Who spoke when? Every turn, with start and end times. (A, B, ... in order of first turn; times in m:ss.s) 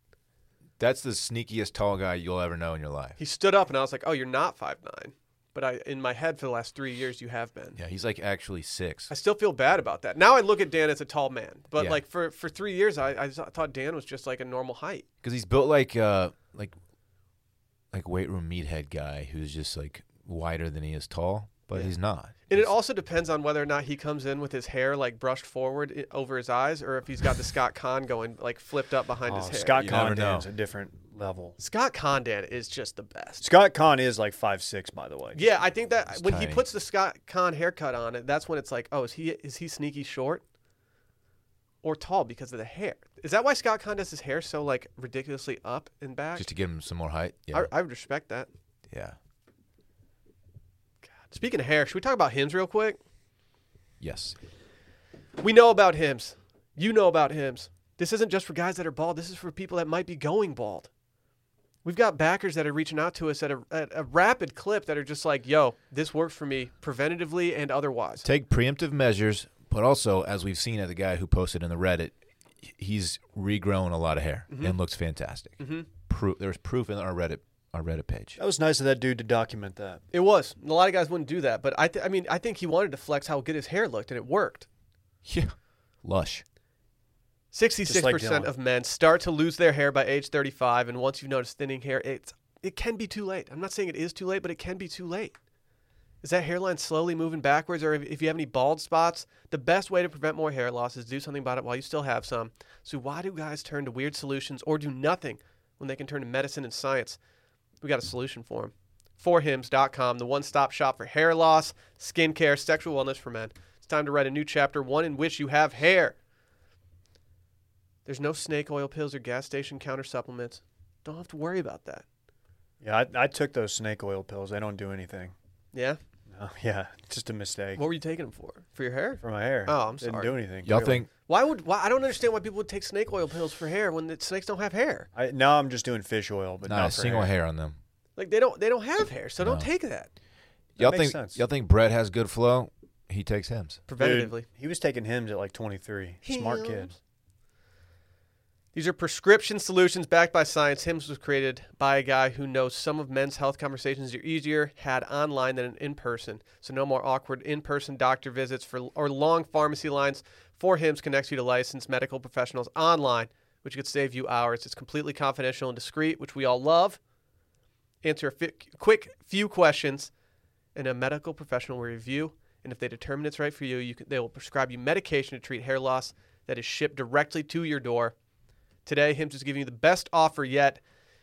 0:00.8-0:03.2 A
0:03.2-0:07.8 B
0:07.8-0:09.1 A
0:09.1-0:15.0 B
0:11.8-0:12.0 A
0:15.2-0:16.7 A
0:17.9-0:22.7 A
0:22.5-0:30.0 B
0:29.2-0:31.6 C
0:29.8-0:30.4 A
0:31.6-0:33.4 B
0:33.4-0:35.5 C
0:35.3-0:40.4 B
0:36.1-0:36.6 A
0:41.8-0:46.5 B
0:46.4-0:47.7 A
0:47.5-0:48.5 B
0:48.9-0:49.2 A
0:51.2-0:53.0 B
0:54.0-0:54.4 A
0:55.4-1:00.9 B
1:01.8-1:08.3 B
1:08.2-1:18.4 A
1:14.5-1:14.8 B
1:15.6-1:15.9 B
1:18.4-1:20.0 C
1:20.1-1:24.7 B
1:25.2-1:26.4 A
1:27.5-1:35.3 B
1:27.9-1:28.5 C
1:36.2-1:47.2 B
1:47.8-1:56.2 B
1:58.0-2:02.0 B
2:02.8-2:05.3 C
2:05.7-2:06.0 B
2:06.3-2:07.8 C
2:07.8-2:10.3 B
2:09.2-2:11.0 C
2:10.6-2:11.1 A
2:11.3-2:15.1 B
2:15.2-2:17.3 C
2:16.6-2:17.8 A
2:18.2-2:20.1 B
2:19.4-2:19.7 A
2:20.8-2:23.8 A
2:20.8-2:21.4 C
2:23.9-2:24.4 B
2:24.0-2:26.9 C
2:26.2-2:27.0 B
2:28.7-2:47.0 B
2:48.0-2:50.1 B
2:50.7-2:58.1 B
2:58.8-3:00.8 B